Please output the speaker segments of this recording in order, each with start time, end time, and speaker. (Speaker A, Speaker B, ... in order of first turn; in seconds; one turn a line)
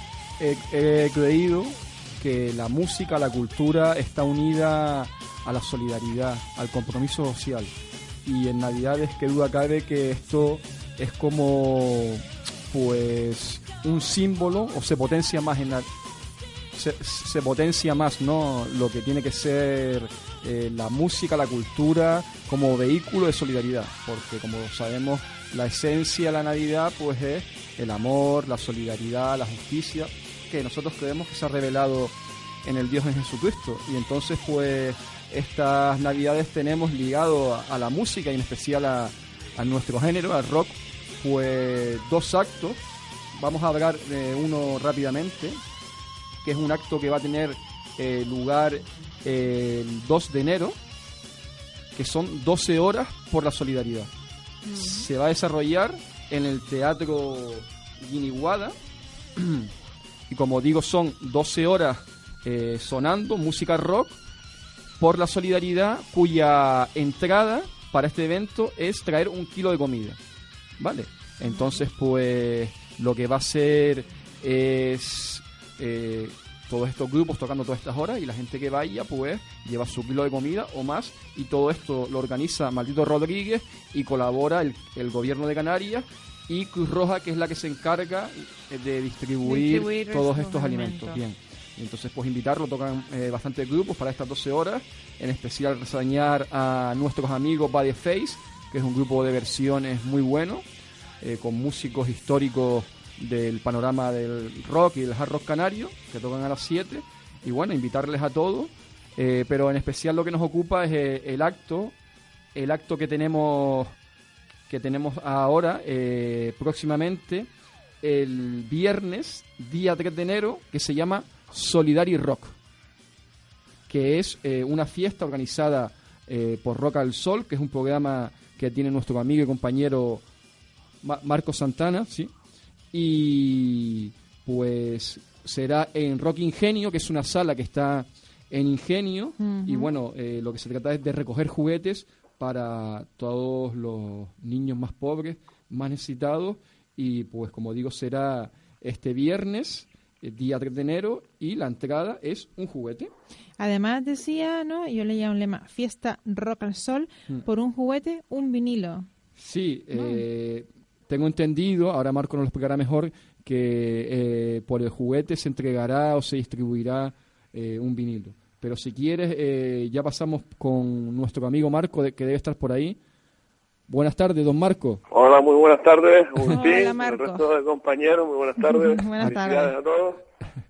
Speaker A: 0.4-7.7
Speaker A: 8.2-15.9
Speaker A: 16.7-42.8
Speaker A: 43.3-45.6
Speaker A: 46.4-50.8
Speaker A: 51.9-54.1
Speaker B: 54.6-55.1
Speaker A: 54.7-58.8
Speaker A: 59.4-59.7
Speaker A: 60.3-64.2
Speaker A: 65.0-70.2
Speaker A: 70.8-100.7
Speaker B: 89.4-91.2
Speaker A: 101.2-112.0
Speaker A: 112.5-114.0
Speaker A: 114.7-117.5
Speaker A: 118.0-122.6
Speaker A: 123.9-130.2
Speaker A: 131.0-132.3
Speaker A: 132.9-153.1
Speaker B: 139.4-139.9
Speaker B: 153.6-159.1
Speaker A: 159.4-173.0
Speaker B: 159.9-160.2
Speaker A: 173.9-175.0
Speaker C: 175.1-180.2
Speaker B: 176.5-177.5
Speaker B: 178.6-179.8